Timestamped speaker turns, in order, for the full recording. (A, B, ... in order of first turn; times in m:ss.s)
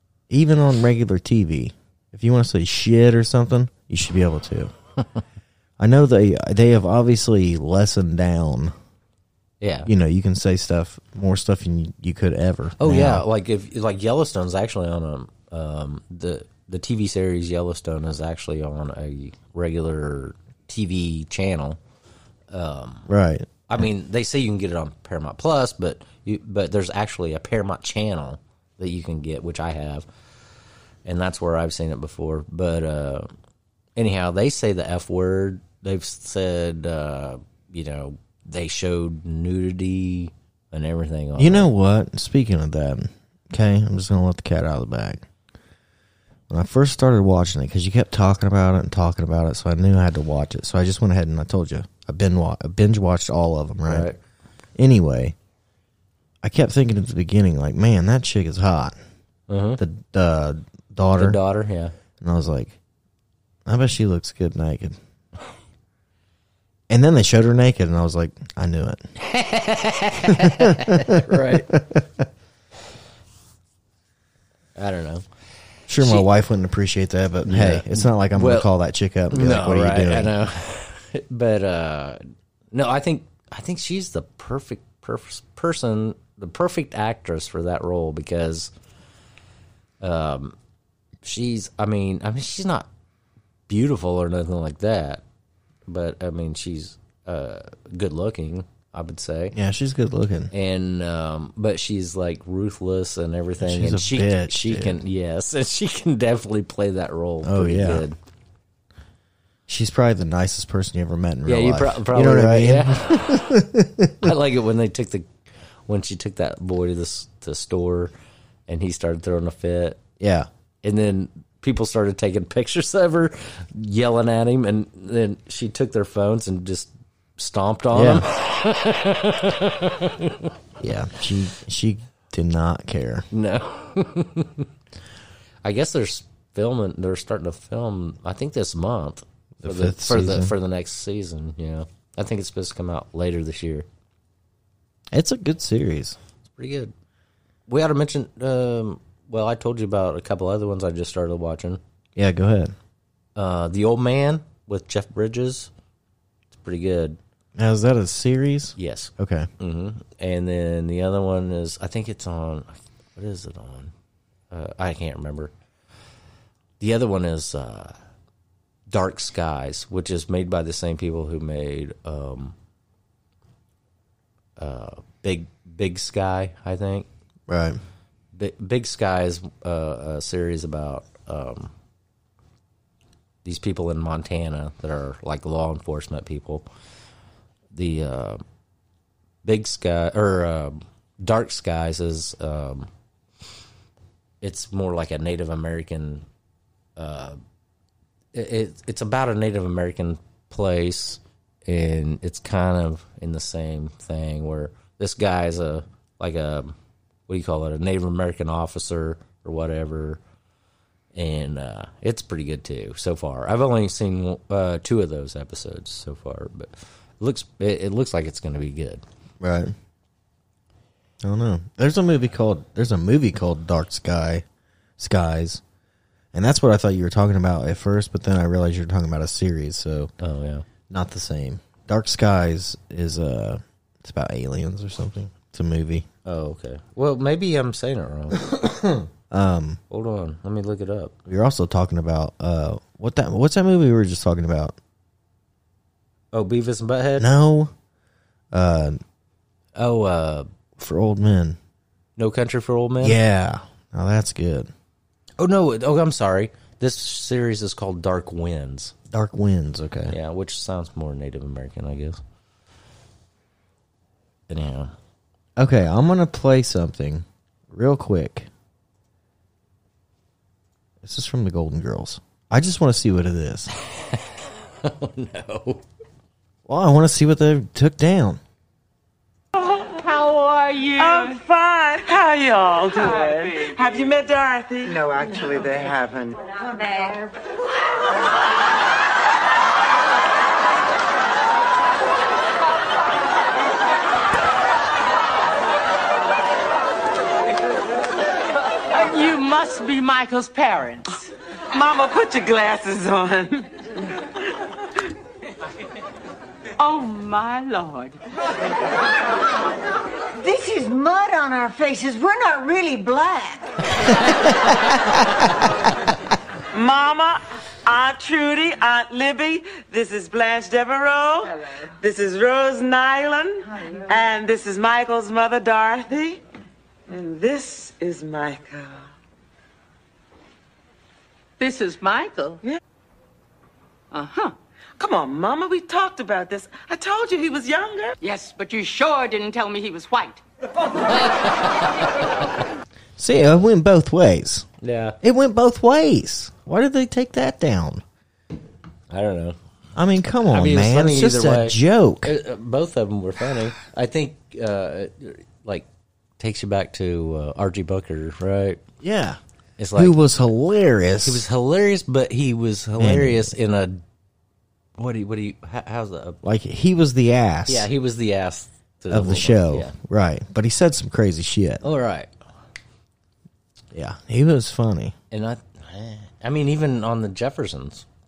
0:00.3-0:04.7 A
0:05.8-0:08.7 A
0:09.6-0:09.9 B
0:09.8-0:13.2 A
0:12.8-0:21.8 B
0:22.5-0:23.1 B
0:23.1-0:23.5 A
0:23.7-0:30.0 B
0:31.0-0:33.3 B
0:34.0-0:41.7 B
0:41.4-0:45.2 A
0:46.5-0:54.1 A
0:53.9-0:54.2 B
0:54.8-0:55.3 A
0:56.4-0:58.9 A
0:59.5-0:59.8 B
0:59.8-1:01.4 A
1:01.2-1:01.9 B
1:02.2-1:02.8 A
1:03.6-1:05.0 A
1:06.9-1:09.0 A
1:09.2-1:11.8 B
1:10.3-1:12.2 A
1:14.8-1:15.2 B
1:15.9-1:20.3 A
1:16.0-1:16.3 B
1:17.4-1:18.7 B
1:19.3-1:28.7 B
1:30.0-1:30.6 B
1:31.2-1:32.9 B
1:33.7-1:35.2 B
1:35.9-1:39.5 B
1:39.5-1:40.5 A
1:40.5-1:48.2 B
1:43.6-1:45.0 A
1:47.4-1:48.0 A
1:49.7-1:54.3 A
1:51.4-1:53.6 B
1:54.2-1:55.3 B
1:55.9-1:58.1 B
1:58.7-2:00.0 B
2:00.2-2:00.5 A
2:00.8-2:10.5 B
2:07.9-2:08.2 A
2:10.8-2:13.3 A
2:13.3-2:14.7 B
2:15.6-2:23.9 B
2:19.6-2:20.5 A
2:25.1-2:26.2 A
2:26.4-2:26.9 B
2:27.7-2:31.8 B
2:32.2-2:32.7 A
2:33.4-2:35.7 B
2:36.5-2:37.2 B
2:37.6-2:39.5 A
2:38.8-2:43.9 B
2:44.5-2:45.5 B
2:46.8-2:47.9 B
2:48.9-2:52.5 B
2:54.6-2:57.1 B
2:57.5-2:57.8 A
2:58.3-3:01.7 B
3:03.4-3:06.6 B
3:07.7-3:08.4 B
3:09.4-3:12.9 B
3:14.4-3:16.2 B
3:17.0-3:17.4 B
3:18.3-3:26.7 B
3:27.3-3:30.2 B
3:31.1-3:39.0 B
3:39.4-3:39.7 A
3:41.2-3:44.4 A
3:45.0-3:45.6 A
3:46.3-3:50.1 A
3:50.2-3:50.6 B
3:50.9-3:56.1 A
3:56.2-3:58.4 B
3:58.5-3:59.8 A
3:59.9-4:01.2 B
4:01.3-4:04.8 A
4:06.3-4:07.3 B
4:07.2-4:07.7 A
4:08.5-4:09.0 A
4:09.8-4:10.5 B
4:10.8-4:11.6 A
4:12.2-4:13.2 B
4:13.0-4:14.7 A
4:15.4-4:18.9 B
4:19.1-4:20.2 A
4:20.1-4:22.2 B
4:24.5-4:24.9 B
4:25.6-4:28.5 A
4:31.0-4:33.7 A
4:33.8-4:35.8 B
4:36.7-4:38.4 A
4:39.6-4:41.4 C
4:41.0-4:46.5 D
4:46.5-4:47.4 E
4:58.9-5:01.3 C
5:01.7-5:03.8 D
5:06.8-5:08.2 C
5:10.4-5:13.7 E
5:16.7-5:26.4 D
5:27.1-5:29.1 D
5:31.6-5:32.6 C
5:34.1-5:34.5 C
5:35.0-5:38.2 D
5:38.2-5:40.4 C
5:41.1-5:42.1 B
5:43.2-5:44.7 A
5:44.8-5:45.2 B
5:45.2-5:48.0 A
5:49.1-5:49.6 B
5:50.0-5:52.3 A
5:50.5-5:55.9 B
5:56.4-5:58.8 B
5:59.0-5:59.4 A
5:59.8-6:00.2 B
6:00.0-6:01.4 A
6:01.2-6:04.0 B
6:03.0-6:03.5 A
6:05.0-6:06.4 B
6:06.4-6:07.9 A
6:07.7-6:09.9 B
6:09.1-6:11.8 A
6:11.8-6:12.3 B
6:13.9-6:15.1 A
6:15.3-6:18.0 B